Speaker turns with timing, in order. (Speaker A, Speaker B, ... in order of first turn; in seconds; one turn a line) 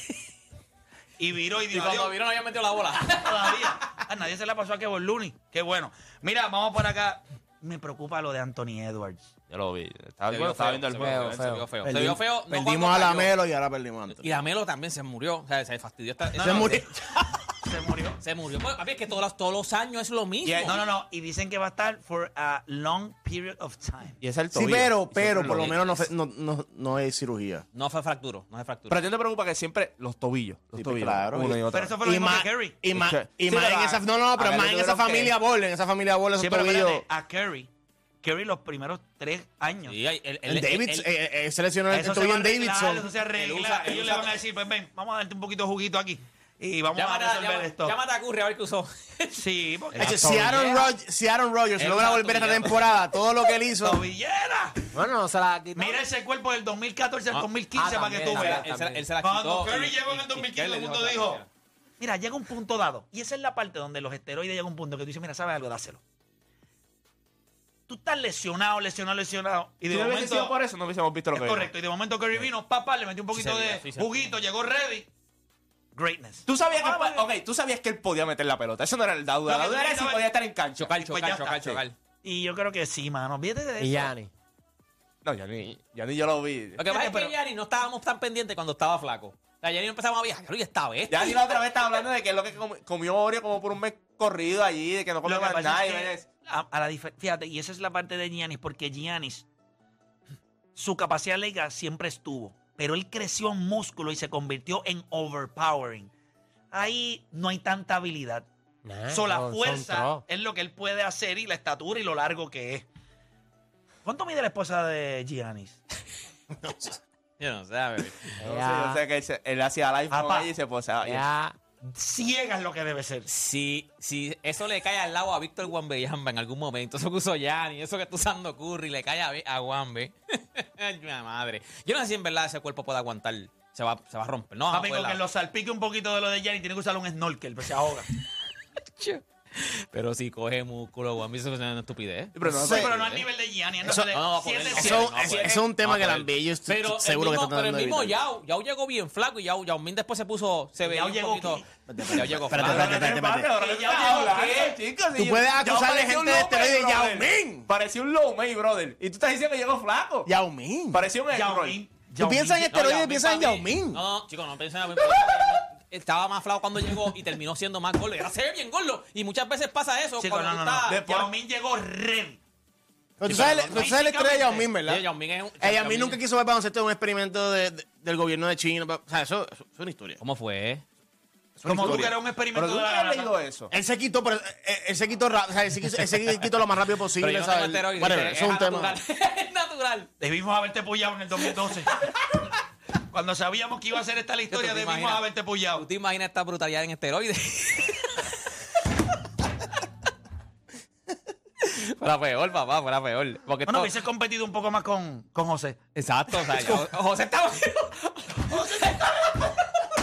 Speaker A: 1.2-2.1
Speaker B: 1.7-3.7
Speaker A: 3.0-9.3
Speaker C: 9.5-11.6
Speaker B: 10.3-13.3
Speaker D: 11.0-11.6
Speaker E: 11.8-14.4
Speaker B: 14.1-16.9
Speaker A: 16.4-16.9
Speaker E: 16.4-17.3
Speaker A: 17.6-18.2
Speaker B: 18.2-20.8
Speaker C: 20.4-20.8
Speaker A: 20.6-24.2
Speaker C: 24.2-25.8
Speaker E: 24.5-27.6
Speaker B: 25.5-25.7
Speaker B: 27.7-29.0
Speaker C: 28.9-31.9
Speaker E: 30.8-37.0
Speaker A: 31.7-32.8
Speaker C: 32.9-35.3
Speaker A: 36.4-37.7
Speaker A: 38.2-40.0
Speaker B: 39.9-41.1
Speaker E: 40.4-43.1
Speaker A: 41.9-48.0
Speaker B: 43.4-44.4
Speaker B: 46.9-49.4
Speaker A: 49.3-50.4
Speaker D: 49.9-50.6
Speaker E: 50.0-54.0
Speaker B: 51.8-53.0
Speaker A: 53.8-54.9
Speaker D: 54.9-56.0
Speaker A: 55.8-58.6
Speaker D: 57.8-59.0
Speaker B: 58.2-61.5
Speaker A: 59.2-61.4
Speaker A: 62.0-66.0
Speaker A: 67.9-70.5
Speaker C: 69.9-71.7
Speaker A: 71.3-75.1
Speaker B: 73.3-74.3
Speaker A: 75.9-77.2
Speaker C: 76.5-81.8
Speaker A: 79.5-80.3
Speaker B: 80.8-82.0
Speaker A: 81.1-81.5
Speaker A: 82.2-84.1
Speaker D: 83.8-84.3
Speaker C: 85.2-86.8
Speaker B: 86.8-91.5
Speaker A: 86.9-87.3
Speaker C: 91.1-96.2
Speaker A: 95.2-99.5
Speaker A: 100.7-106.1
Speaker A: 106.7-108.5
Speaker D: 108.8-110.2
Speaker A: 109.1-112.8
Speaker A: 114.0-115.8
Speaker E: 116.5-117.0
Speaker B: 117.4-118.4
Speaker D: 118.4-119.0
Speaker C: 118.4-121.2
Speaker A: 120.1-120.5
Speaker D: 121.0-121.5
Speaker A: 121.8-123.3
Speaker B: 123.3-135.2
Speaker A: 134.7-138.1
Speaker B: 138.9-143.2
Speaker C: 142.3-142.9
Speaker A: 142.6-145.3
Speaker E: 142.6-142.9
Speaker E: 143.8-144.1
Speaker B: 144.1-153.1
Speaker E: 144.7-148.2
Speaker A: 150.8-151.7
Speaker E: 151.9-153.5
Speaker C: 152.5-160.3
Speaker A: 152.5-154.8
Speaker E: 155.1-157.7
Speaker E: 160.2-161.1
Speaker C: 160.9-161.8
Speaker A: 161.3-162.9
Speaker E: 162.2-164.0
Speaker B: 162.7-171.0
Speaker A: 170.2-172.4
Speaker C: 170.9-171.3
Speaker E: 173.2-175.1
Speaker A: 173.2-174.7
Speaker B: 173.2-173.9
Speaker B: 174.8-176.2
Speaker E: 175.6-180.2
Speaker B: 180.2-180.8
Speaker E: 181.6-182.2
Speaker A: 181.7-183.3
Speaker C: 182.5-183.7
Speaker E: 183.7-189.0
Speaker B: 187.2-190.1
Speaker A: 190.2-191.9
Speaker A: 193.1-195.8
Speaker B: 194.5-198.3
Speaker B: 201.6-203.9
Speaker A: 203.7-205.8
Speaker B: 205.9-209.4
Speaker A: 206.5-206.8
Speaker A: 208.5-209.5